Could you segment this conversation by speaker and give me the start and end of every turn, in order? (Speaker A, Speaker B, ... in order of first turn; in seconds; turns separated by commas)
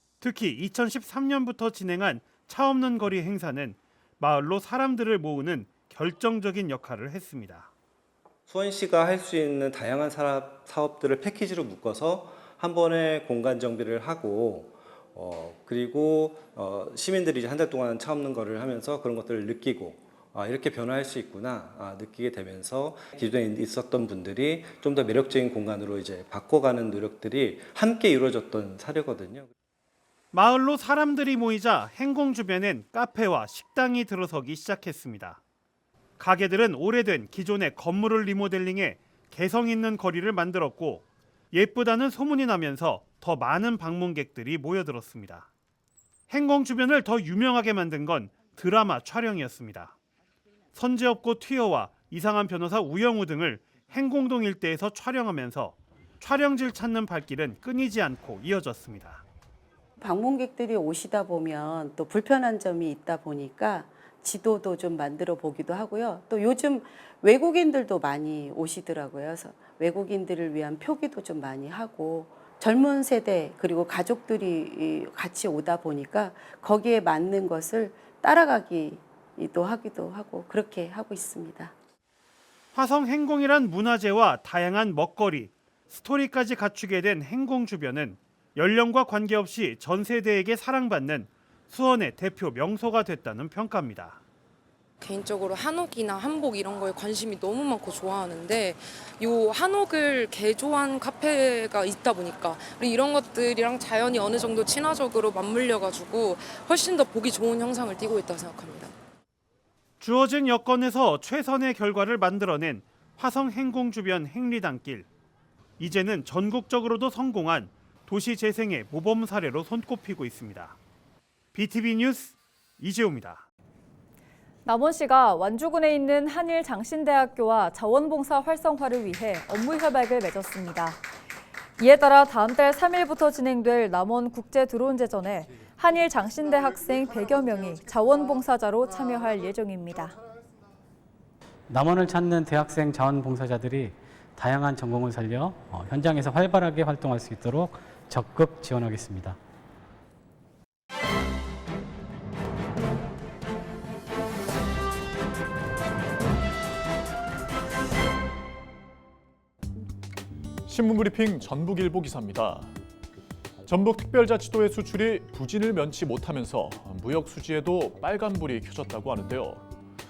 Speaker A: 0.2-7.7, Speaker B: 8.5-29.5, Speaker A: 30.3-35.4, Speaker A: 36.2-45.5, Speaker A: 46.3-49.9, Speaker A: 50.8-59.2, Speaker C: 60.0-81.7, Speaker A: 82.7-94.2, Speaker D: 95.0-108.9, Speaker A: 110.0-115.1, Speaker A: 115.8-120.8, Speaker A: 121.5-123.5, Speaker E: 124.7-131.0, Speaker E: 131.8-140.2, Speaker F: 141.7-149.4, Speaker G: 160.7-162.7, Speaker G: 163.7-169.6